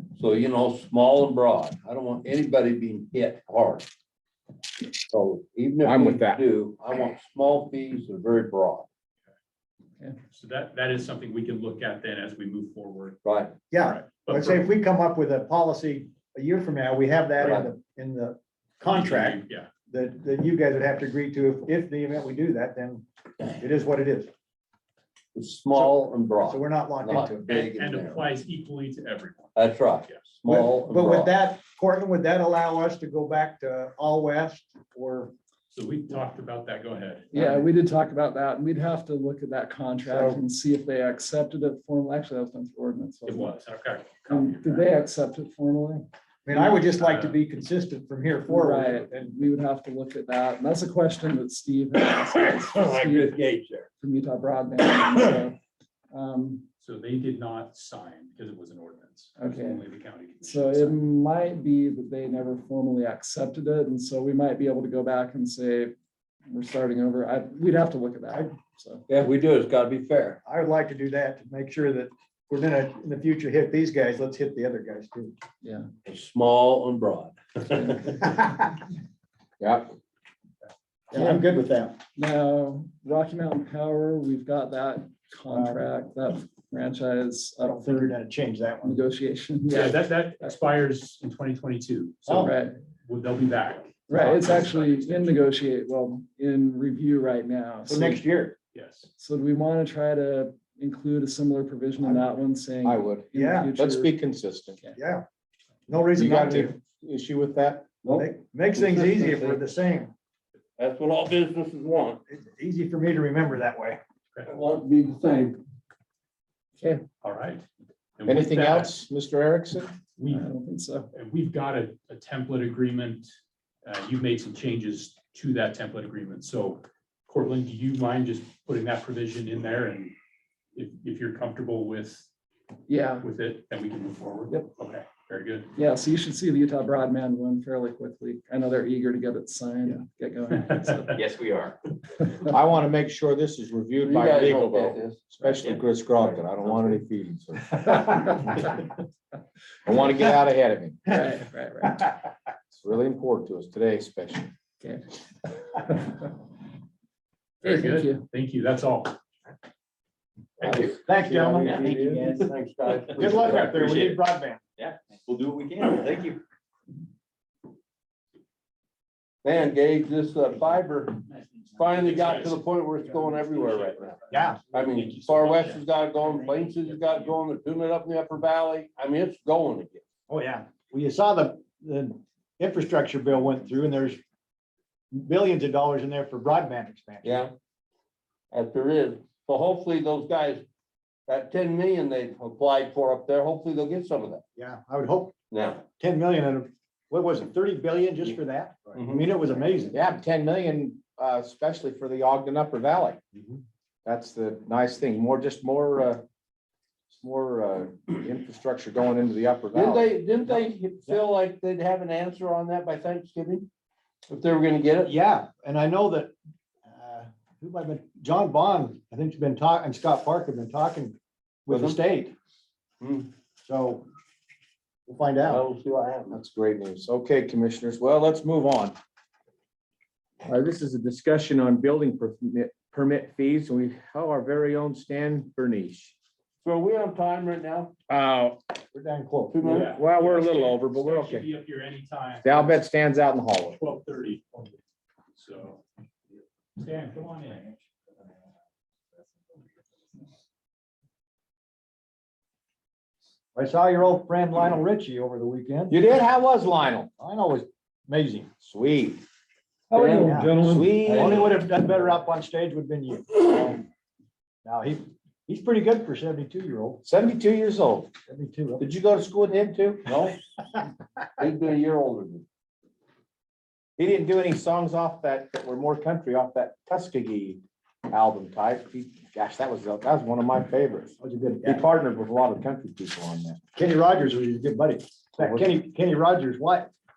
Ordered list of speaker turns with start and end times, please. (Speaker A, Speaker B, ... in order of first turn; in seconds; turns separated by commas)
Speaker A: 0.1-3.9, Speaker A: 5.1-8.9, Speaker B: 5.8-6.4, Speaker C: 10.3-13.2, Speaker A: 13.2-13.5, Speaker D: 13.7-24.3, Speaker C: 13.8-14.7, Speaker A: 17.4-17.7, Speaker C: 18.8-19.7, Speaker A: 25.3-28.3, Speaker D: 25.7-27.7, Speaker C: 27.4-30.2, Speaker A: 29.5-31.4, Speaker D: 30.4-35.3, Speaker C: 35.7-37.3, Speaker E: 37.3-43.6, Speaker D: 37.3-37.6, Speaker D: 40.0-40.4, Speaker C: 43.2-45.0, Speaker E: 44.2-46.0, Speaker D: 46.4-49.3, Speaker C: 46.8-47.4, Speaker E: 48.5-53.4, Speaker A: 52.3-53.9, Speaker E: 54.0-55.6, Speaker E: 56.1-56.6, Speaker C: 56.8-61.0, Speaker E: 59.4-59.8, Speaker E: 60.4-65.9, Speaker E: 66.5-69.0, Speaker A: 69.1-70.4, Speaker D: 70.4-75.3, Speaker E: 75.6-75.9, Speaker A: 76.0-78.2, Speaker E: 77.7-78.0, Speaker B: 79.6-79.9, Speaker D: 81.1-82.0, Speaker E: 81.1-81.4, Speaker E: 82.2-88.1, Speaker D: 85.5-85.8, Speaker D: 87.6-89.0, Speaker E: 88.8-90.0, Speaker C: 89.7-95.3, Speaker D: 92.2-92.5, Speaker E: 92.4-92.7, Speaker E: 94.1-98.2, Speaker D: 97.9-98.5, Speaker C: 98.7-99.1, Speaker E: 99.2-104.1, Speaker D: 102.0-102.2, Speaker B: 102.8-104.8, Speaker D: 103.3-103.7, Speaker D: 104.9-105.2, Speaker D: 105.9-106.7, Speaker B: 106.1-107.9, Speaker A: 108.0-109.6, Speaker D: 108.1-110.1, Speaker A: 110.8-112.2, Speaker D: 112.3-114.0, Speaker A: 114.4-115.6, Speaker C: 117.2-117.6, Speaker C: 118.2-118.9, Speaker B: 118.2-119.9, Speaker C: 120.2-120.5, Speaker E: 120.3-121.1, Speaker C: 121.1-123.3, Speaker C: 123.8-130.1, Speaker C: 130.7-132.3, Speaker E: 132.9-133.3, Speaker C: 133.2-135.7, Speaker E: 135.7-141.1, Speaker C: 140.7-141.3, Speaker F: 141.1-141.8, Speaker B: 142.4-148.8, Speaker A: 144.0-145.2, Speaker B: 149.8-151.2, Speaker E: 151.1-152.1, Speaker B: 152.7-154.5, Speaker E: 155.7-156.2, Speaker C: 157.6-159.2, Speaker E: 157.6-158.2, Speaker C: 160.6-161.0, Speaker B: 160.6-160.9, Speaker D: 161.0-162.0, Speaker A: 161.2-164.2, Speaker F: 161.6-162.5, Speaker D: 163.2-164.6, Speaker F: 164.8-166.4, Speaker A: 169.4-180.0, Speaker D: 174.3-174.6, Speaker C: 175.0-175.8, Speaker D: 180.3-184.2, Speaker D: 185.1-187.4, Speaker A: 187.2-187.5, Speaker A: 188.5-190.6, Speaker A: 191.3-194.4, Speaker D: 194.6-195.3, Speaker A: 195.5-195.8, Speaker D: 196.0-199.9, Speaker A: 198.9-199.3, Speaker B: 199.9-203.2, Speaker D: 203.3-203.6, Speaker B: 204.0-206.2, Speaker B: 207.1-210.1, Speaker A: 209.7-213.7, Speaker A: 214.3-215.1, Speaker D: 215.0-216.3, Speaker D: 216.9-222.3, Speaker A: 221.7-222.0, Speaker A: 223.0-223.3, Speaker D: 223.6-224.1, Speaker D: 225.1-225.6, Speaker A: 225.4-226.4, Speaker B: 226.3-229.0, Speaker B: 230.4-236.1, Speaker A: 236.6-237.9, Speaker B: 238.1-238.7, Speaker D: 238.9-239.8, Speaker A: 239.5-239.9, Speaker C: 239.6-242.7, Speaker B: 239.9-241.4, Speaker B: 242.4-243.8, Speaker C: 243.8-244.8, Speaker C: 245.3-245.8, Speaker C: 246.8-247.7, Speaker D: 253.5-255.9, Speaker B: 255.9-257.1, Speaker D: 257.2-258.5, Speaker B: 258.6-259.2, Speaker E: 259.9-261.0, Speaker A: 259.9-260.4, Speaker D: 260.1-263.8, Speaker B: 260.6-261.5, Speaker A: 260.9-261.7, Speaker D: 264.6-267.0, Speaker B: 267.0-268.1, Speaker D: 268.3-268.8, Speaker B: 268.8-270.1, Speaker A: 270.1-270.4, Speaker A: 271.4-272.4, Speaker B: 274.0-283.6, Speaker D: 281.2-281.8, Speaker D: 283.7-286.9, Speaker B: 285.4-285.7